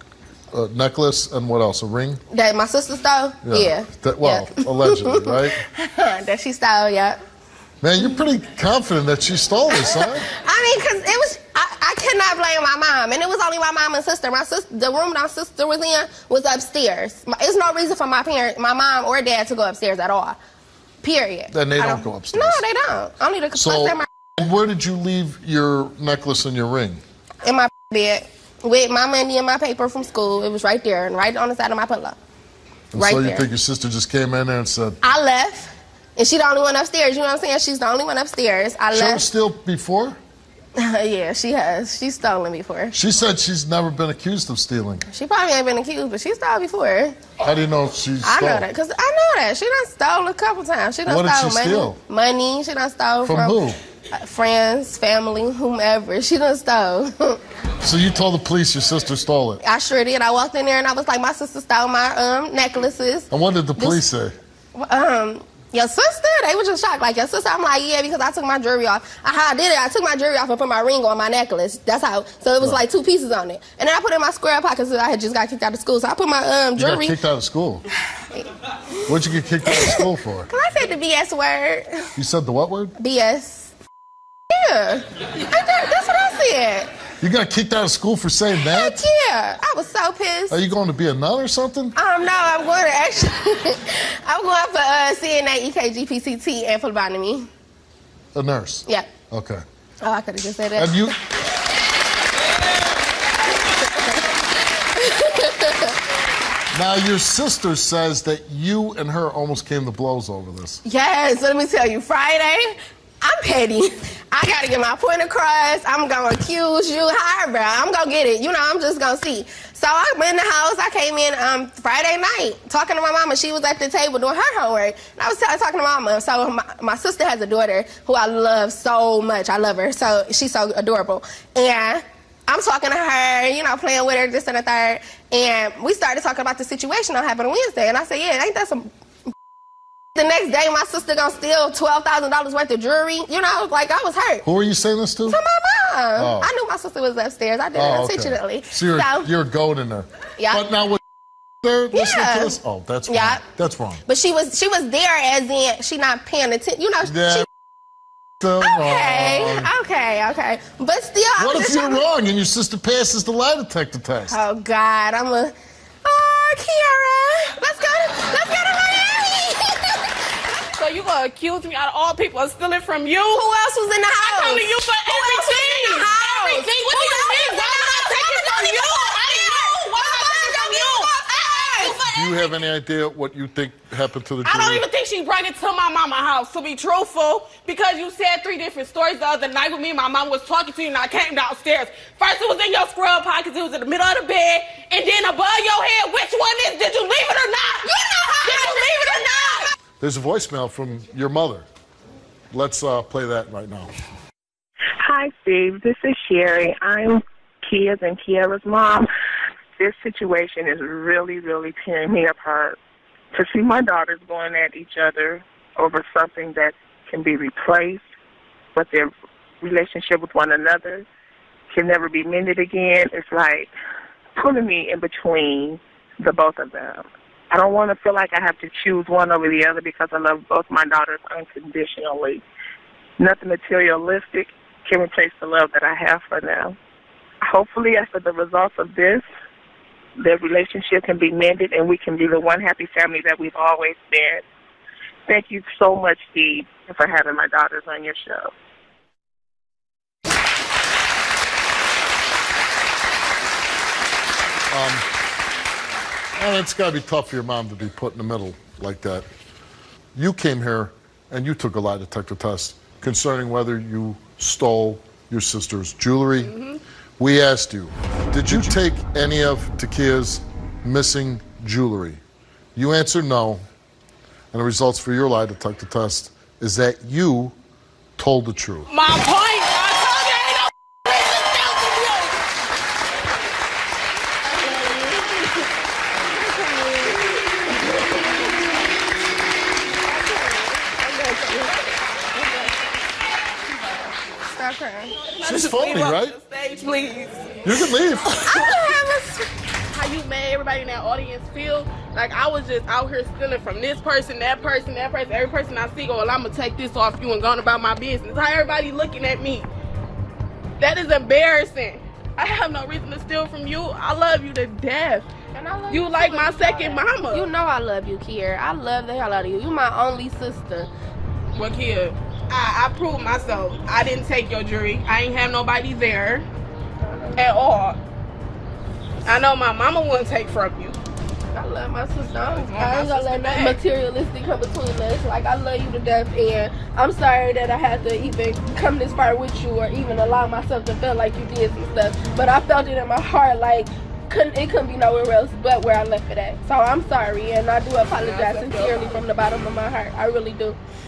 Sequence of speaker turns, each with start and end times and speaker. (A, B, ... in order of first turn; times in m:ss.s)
0:00.5-0:02.2 A
0:02.3-0:07.2 B
0:03.4-0:05.6 A
0:07.8-0:10.2 A
0:09.7-0:20.4 B
0:21.0-0:24.1 B
0:21.5-0:22.6 A
0:23.5-0:27.0 A
0:27.4-0:32.2 B
0:32.9-0:35.0 A
0:33.0-0:33.5 B
0:35.0-0:39.2 B
0:38.9-0:40.2 A
0:40.8-0:42.9 B
0:42.9-0:45.0 A
0:45.1-0:47.2 B
0:47.4-0:48.7 A
0:48.2-0:53.6 B
0:51.0-0:52.0 A
0:53.2-0:53.8 A
0:54.1-0:57.4 B
0:57.8-0:59.6 A
0:59.6-1:04.0 B
1:03.3-1:04.3 A
1:04.7-1:17.2 B
1:16.8-1:17.8 A
1:19.1-1:20.5 A
1:19.7-1:22.1 B
1:22.2-1:22.9 A
1:23.0-1:23.7 B
1:24.5-1:26.9 B
1:27.2-1:29.0 A
1:28.6-1:30.6 B
1:30.5-1:32.0 A
1:32.0-1:37.5 B
1:38.3-1:39.6 A
1:40.0-1:41.1 B
1:40.8-1:41.1 A
1:43.7-1:46.0 B
1:46.7-1:50.8 A
1:50.8-2:18.9 B
2:20.1-2:24.4 B
2:24.4-2:25.4 A
2:25.3-2:29.3 B
2:26.2-2:26.5 A
2:27.7-2:31.0 A
2:30.4-2:30.6 B
2:31.6-2:34.0 A
2:31.9-2:33.4 B
2:34.0-2:37.5 B
2:37.0-2:37.5 A
2:38.4-2:39.7 A
2:38.6-2:42.0 B
2:41.4-2:44.4 A
2:44.3-2:45.5 B
2:46.0-2:50.2 B
2:50.7-2:53.4 C
2:53.3-3:02.0 B
2:54.2-3:02.5 C
3:02.1-3:04.8 A
3:04.4-3:19.7 C
3:18.1-3:18.7 B
3:20.0-3:21.7 A
3:22.5-3:23.9 A
3:25.0-3:29.1 D
3:29.8-3:32.8 D
3:33.3-3:38.0 D
3:38.7-3:41.0 D
3:41.7-3:43.7 D
3:44.4-3:52.4 D
3:53.2-3:56.8 D
3:57.4-3:59.2 D
4:00.2-4:04.4 D
4:05.3-4:08.5 D
4:14.7-4:15.0 A
4:16.4-4:19.2 A
4:20.1-4:26.5 A
4:26.4-4:26.8 C
4:27.2-4:32.2 A
4:32.8-4:33.6 A
4:34.5-4:37.5 A
4:38.2-4:38.9 A
4:38.9-4:42.4 C
4:44.5-4:45.7 B
4:46.3-4:47.2 C
4:50.1-4:52.7 C
4:54.5-4:55.2 B
4:55.3-4:57.6 C
4:55.4-4:56.3 A
4:57.6-4:58.6 A
4:58.4-4:59.4 B
4:59.9-5:09.7 C
5:10.8-5:15.3 C
5:15.5-5:20.9 B
5:15.9-5:17.5 C
5:21.5-5:26.4 C
5:27.4-5:28.0 C
5:29.2-5:31.0 C
5:31.5-5:50.8 B
5:32.4-5:33.8 C
5:48.1-5:49.2 C